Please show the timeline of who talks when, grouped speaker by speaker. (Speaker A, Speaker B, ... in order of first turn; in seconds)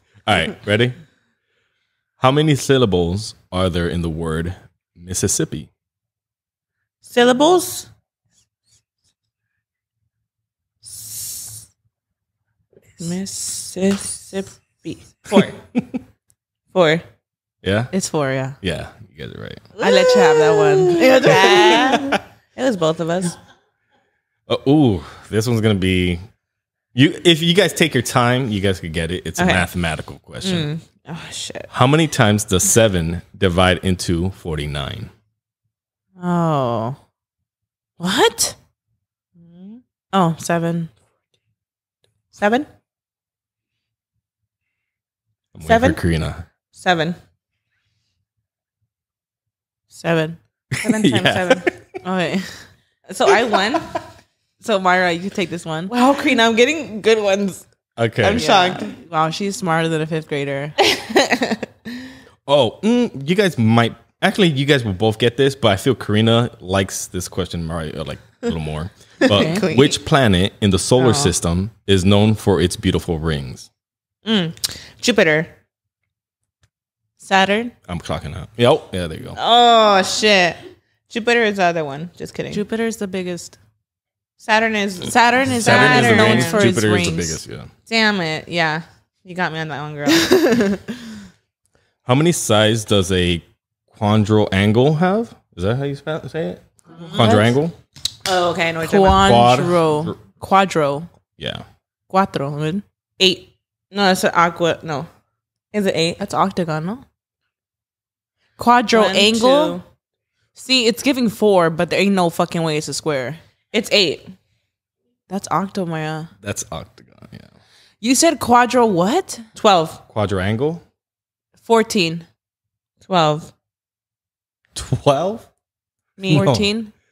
Speaker A: 0.2-0.9, 2.2-5.7, 15.3-15.8, 17.6-17.9, 18.6-19.7, 24.5-26.2, 26.9-30.7, 31.7-35.1, 45.5-46.4, 50.7-51.8, 58.0-58.5, 62.5-73.7, 77.9-79.4, 85.5-87.7, 92.0-97.8, 99.1-100.2, 101.4-101.6, 116.4-117.5, 120.1-120.8, 124.7-125.5, 126.3-126.7
Speaker B: 7.0-7.9, 10.8-11.5, 13.0-15.6, 16.7-17.0, 19.8-23.4, 29.4-29.7, 30.4-31.7, 39.4-39.8, 42.3-42.7, 45.6-46.0, 46.7-47.2, 50.8-51.7, 53.1-53.9, 55.9-57.6, 58.2-59.0, 60.8-61.7, 69.3-69.8, 71.0-71.3, 74.2-75.5, 79.3-82.6, 84.4-86.7, 87.9-90.7, 98.2-99.3, 103.2-105.1, 105.7-106.2, 108.9-109.8, 113.7-114.2, 119.5-120.0, 123.0-123.5, 126.2-126.5
Speaker C: 17.9-18.6, 19.8-22.1, 36.2-37.0, 38.0-38.5, 40.1-40.9, 49.9-50.4, 52.0-52.7, 54.6-55.9, 58.4-60.8, 69.2-69.9, 77.2-77.7, 82.5-83.6, 85.0-87.4, 90.2-90.8, 97.2-97.5, 98.8-101.1, 102.1-102.8, 106.2-107.0, 108.6-109.8, 110.5-113.4, 115.3-116.3, 118.0-119.5, 121.6-122.2, 126.3-126.9